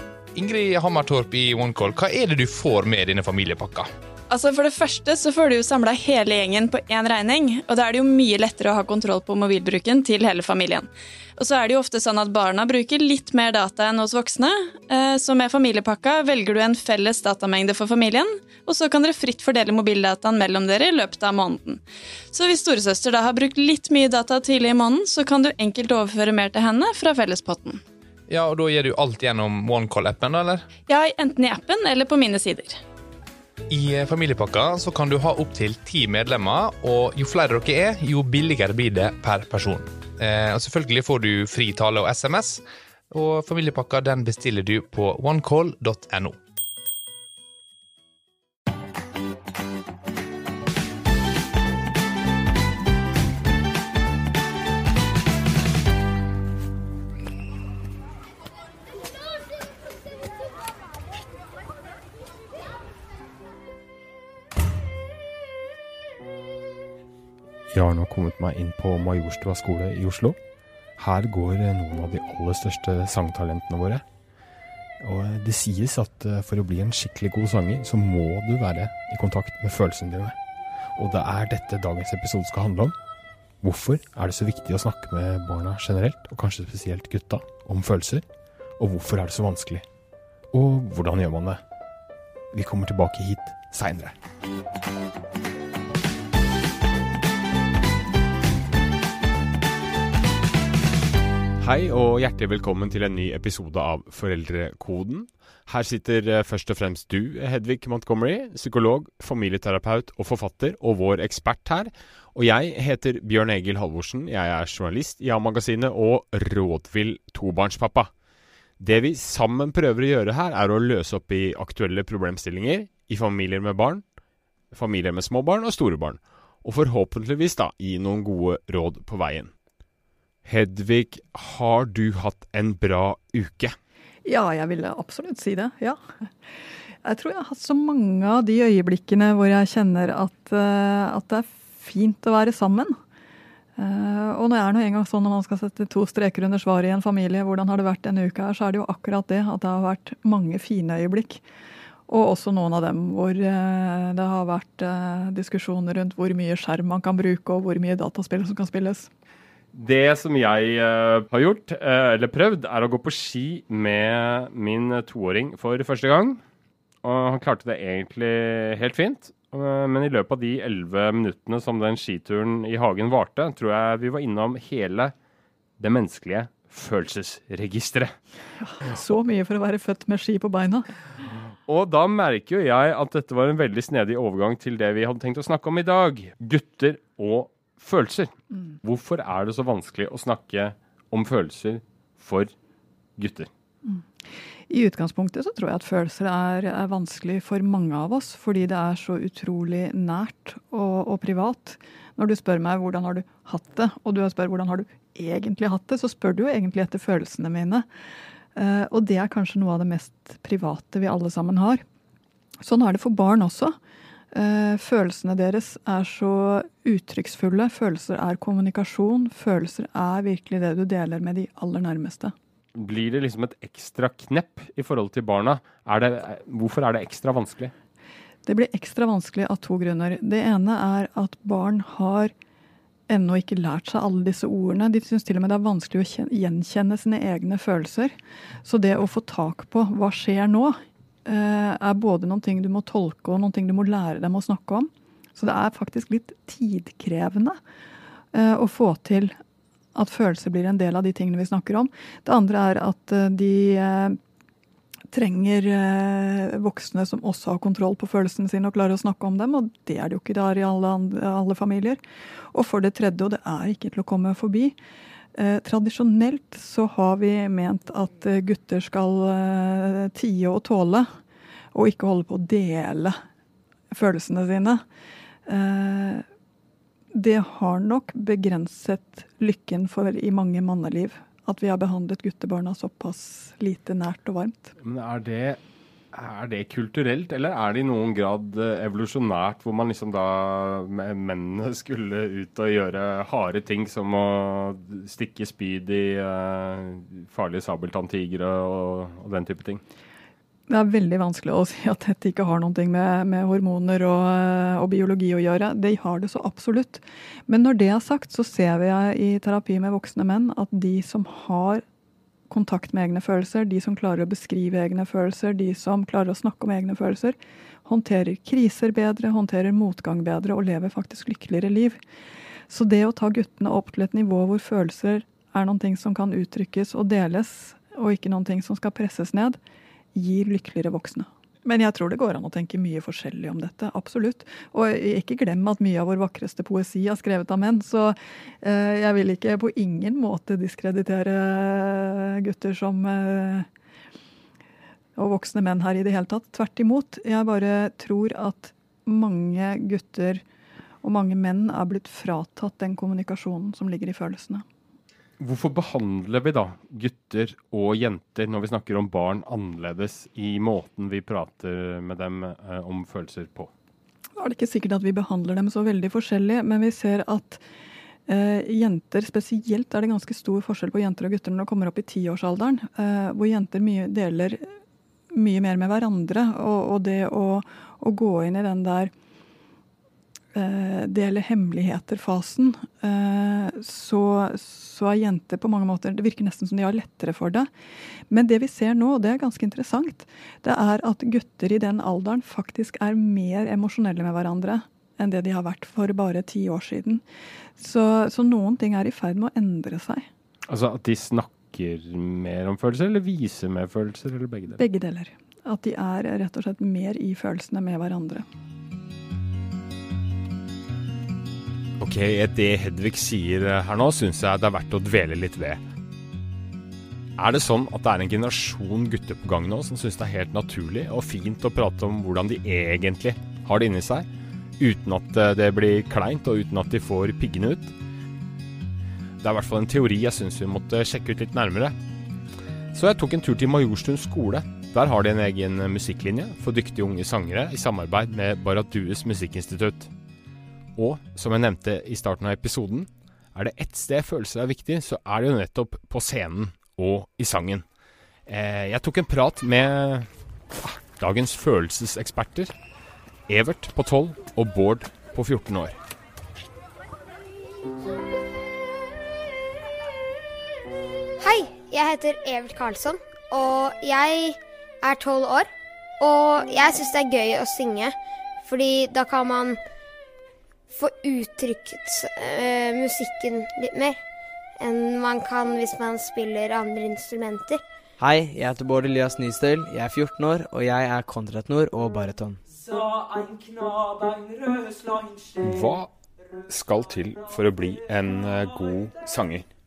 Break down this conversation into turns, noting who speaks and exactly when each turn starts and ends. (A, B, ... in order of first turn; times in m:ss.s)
0:00.3-0:03.9 A
0:04.3-0:27.8 B
0:28.3-0:30.7 A
0:30.9-0:32.8 B
0:33.7-0:46.4 A
1:07.7-1:10.4 C
1:11.0-1:14.0 C
1:15.0-1:20.4 C
1:21.0-1:22.9 C
1:23.6-1:28.2 C
1:28.8-1:29.8 C
1:30.5-1:31.6 C
1:32.5-1:34.2 C
1:41.6-1:58.1 C
1:58.8-2:04.0 C
2:04.7-2:09.5 C
2:10.4-2:13.8 C
2:14.2-2:16.0 D
2:17.0-2:23.0 D
2:23.8-2:31.4 D
2:32.1-2:39.1 D
2:39.7-2:46.4 C
2:47.0-2:55.1 C
2:55.8-2:58.1 C
2:58.6-3:00.9 D
3:01.7-3:12.5 C
3:13.2-3:13.5 C
3:14.7-3:27.9 D
3:28.6-3:31.8 D
3:32.6-3:33.8 D
3:34.3-3:42.3 D
3:42.8-3:47.7 C
3:48.5-3:52.3 D
3:53.1-4:07.6 D
4:08.3-4:09.4 D
4:10.0-4:14.2 D
4:15.1-4:22.0 D
4:22.5-4:24.8 D
4:25.4-4:31.1 D
4:31.7-4:33.2 D
4:33.9-4:34.8 D
4:35.5-4:36.2 D
4:37.1-4:44.7 D
4:44.8-4:45.6 C
4:46.1-4:59.8 C
5:00.7-5:11.8 D
5:12.5-5:22.0 D
5:22.7-5:29.6 D
5:30.1-5:43.7 D
5:45.2-5:50.4 D
5:51.0-5:54.6 D
5:55.4-6:03.7 C
6:04.4-6:07.6 D
6:08.3-6:14.7 D
6:15.3-6:19.1 D
6:20.5-6:27.7 D
6:28.3-6:37.2 D
6:37.8-6:40.3 D
6:40.7-6:44.8 C
6:44.8-6:48.5 D
6:52.0-6:55.8 C
6:57.4-7:04.3 C
7:04.8-7:07.9 C
7:09.4-7:12.0 C
7:12.9-7:20.1 C
7:21.0-7:27.8 C
7:28.5-7:32.7 C
7:33.5-7:36.0 C
7:41.4-7:45.7 E
7:46.2-7:49.8 E
7:50.9-7:54.2 E
7:54.8-7:57.8 E
7:58.2-8:02.6 F
8:05.6-8:06.1 C
8:06.7-8:09.6 C